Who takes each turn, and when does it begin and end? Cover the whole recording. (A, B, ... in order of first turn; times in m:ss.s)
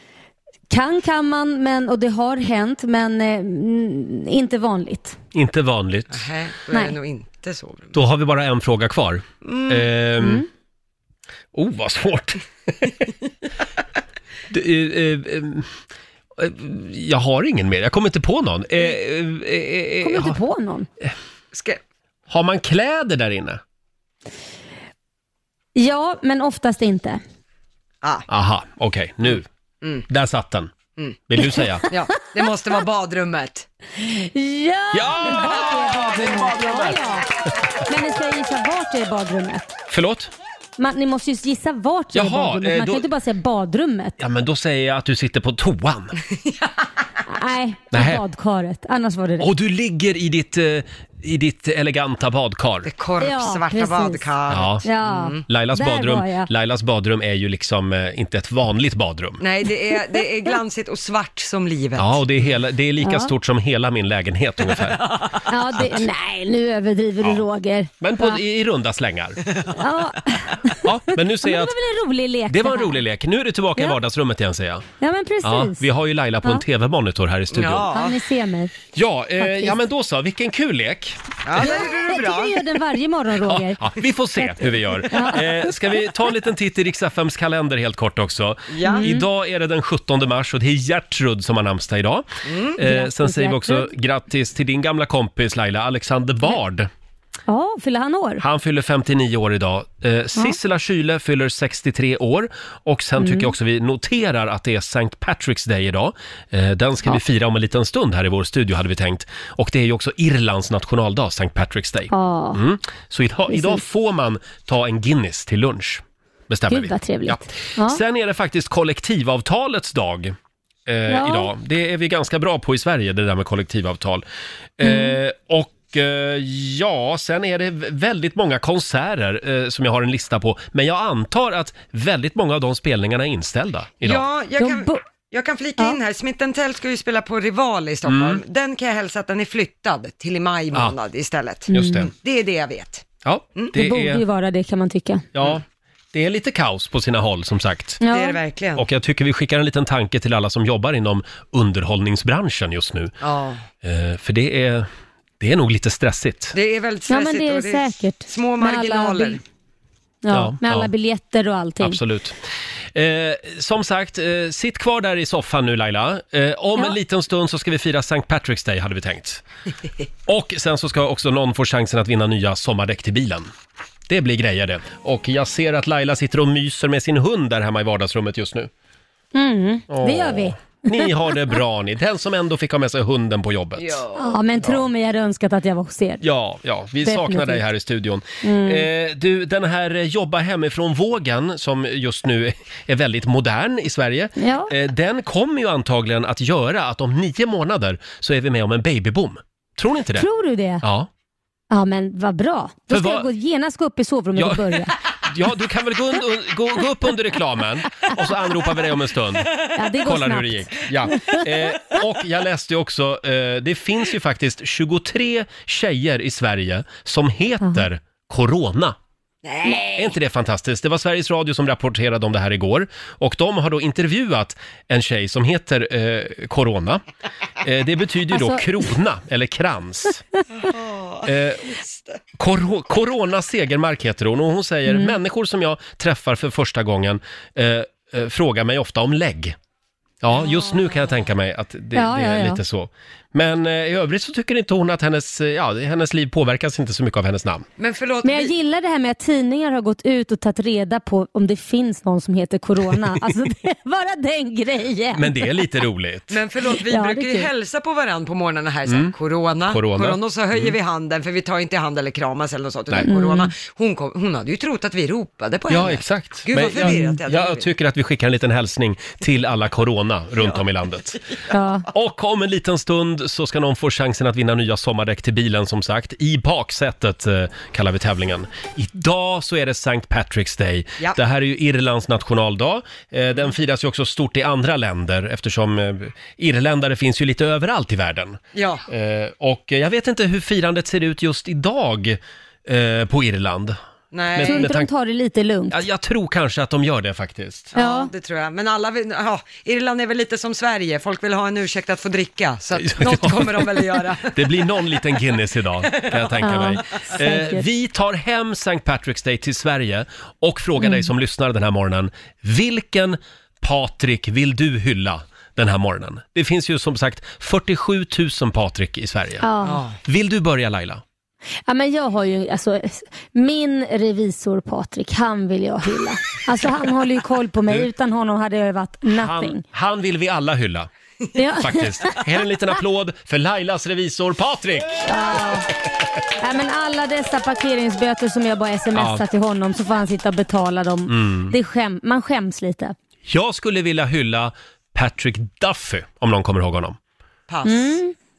0:00.7-0:05.2 A
0:05.3-0:06.3 B
0:06.1-0:08.0 C
0:07.9-0:10.4 B
0:09.4-0:09.9 C
0:11.5-0:13.1 B
0:14.5-0:15.7 B
0:16.4-0:20.4 B
0:20.0-0:20.9 A
0:21.5-0:21.8 C
0:22.3-0:23.6 B
0:25.8-0:27.2 A
0:28.3-0:29.4 B
0:30.1-0:30.7 B
0:31.3-0:31.9 B
0:31.9-0:33.7 C
0:34.0-0:37.3 A
0:34.9-0:37.0 B
0:37.8-0:39.7 A
0:39.9-0:40.3 B
0:40.8-0:44.2 A
0:42.1-0:43.1 B
0:44.2-0:46.2 B
0:46.3-0:46.9 C
0:47.3-0:49.5 A
0:47.9-0:48.2 B
0:49.4-0:52.9 B
0:52.8-0:55.4 C
0:53.2-0:54.2 A
0:54.5-0:54.9 B
0:54.8-0:56.5 A
0:55.4-0:59.4 B
0:59.4-1:02.2 C
1:02.0-1:06.0 B
1:03.0-1:03.3 A
1:04.6-1:05.4 C
1:05.4-1:08.4 A
1:08.0-1:09.4 B
1:09.4-1:09.9 C
1:09.8-1:13.0 A
1:10.8-1:11.8 B
1:12.5-1:14.9 B
1:15.0-1:15.8 A
1:15.4-1:17.9 B
1:17.5-1:18.2 C
1:17.9-1:18.7 A
1:18.9-1:21.2 B
1:19.4-1:19.8 A
1:21.4-1:22.6 C
1:21.6-1:23.8 A
1:23.4-1:32.2 B
1:24.4-1:25.8 A
1:28.7-1:29.1 C
1:28.8-1:29.3 A
1:32.4-1:32.8 C
1:32.8-1:36.9 B
1:32.8-1:33.9 A
1:37.5-1:38.4 A
1:38.4-2:00.3 B
1:43.2-1:43.5 A
1:52.1-1:52.6 A
1:53.5-1:53.8 A
1:56.7-1:58.0 A
2:00.9-2:04.2 B
2:01.1-2:01.5 A
2:04.8-2:14.2 B
2:04.8-2:05.2 A
2:14.0-2:23.0 C
2:14.6-2:15.0 A
2:18.0-2:18.4 B
2:21.7-2:22.1 A
2:21.7-2:22.1 B
2:23.2-2:24.2 B
2:23.7-2:25.3 A
2:25.3-2:28.0 B
2:28.0-2:28.4 A
2:28.1-2:28.8 C
2:28.8-2:33.1 B
2:33.2-2:33.6 C
2:33.8-2:34.9 B
2:35.4-2:36.6 B
2:36.5-2:39.4 C
2:37.1-2:39.4 A
2:40.2-2:42.0 A
2:40.3-2:40.9 B
2:41.8-2:42.4 B
2:42.9-2:49.4 B
2:50.3-2:53.5 B
2:54.1-2:58.7 B
2:59.3-3:01.5 A
2:59.9-3:04.0 B
3:03.8-3:04.4 C
3:04.1-3:06.2 A
3:04.6-3:04.8 B
3:06.2-3:20.3 B
3:07.0-3:07.7 A
3:08.4-3:08.9 A
3:14.4-3:14.7 A
3:20.1-3:20.8 A
3:20.8-3:21.1 B
3:21.7-3:24.9 A
3:22.9-3:23.3 B
3:24.4-3:39.0 B
3:29.7-3:31.5 A
3:39.4-3:40.1 C
3:40.0-3:47.0 B
3:47.6-3:50.2 B
3:48.3-3:48.6 A
3:50.6-3:52.2 C
3:51.2-3:51.8 B
3:52.4-3:59.5 B
3:54.9-3:55.1 A
4:00.2-4:07.6 B
4:00.4-4:01.1 C
4:01.9-4:02.6 A
4:07.8-4:08.5 C
4:08.2-4:15.6 A
4:15.1-4:16.4 B
4:16.3-4:27.7 C
4:16.8-4:17.5 A
4:18.8-4:19.1 B
4:19.7-4:20.7 B
4:23.0-4:23.5 A
4:25.7-4:31.2 B
4:31.5-4:31.9 A
4:31.9-4:53.8 B
4:48.5-4:48.8 C
4:54.1-4:54.7 C
4:54.3-4:54.9 B
4:54.4-4:55.8 A
4:55.7-4:57.7 B
4:57.7-4:58.1 A
4:57.7-5:05.0 C
5:02.8-5:19.5 B
5:05.8-5:06.5 C
5:06.4-5:07.6 A
5:10.8-5:11.1 A
5:19.4-5:19.8 A
5:19.6-5:20.0 C
5:20.0-5:21.0 B
5:21.7-5:29.6 A
5:29.1-5:30.9 B
5:31.3-5:32.2 A
5:31.6-5:35.1 B
5:35.0-5:35.7 A
5:36.4-5:42.9 A
5:38.9-5:39.2 B
5:41.1-5:41.5 B
5:43.3-5:47.0 B
5:47.5-5:48.0 C
5:47.6-5:48.1 A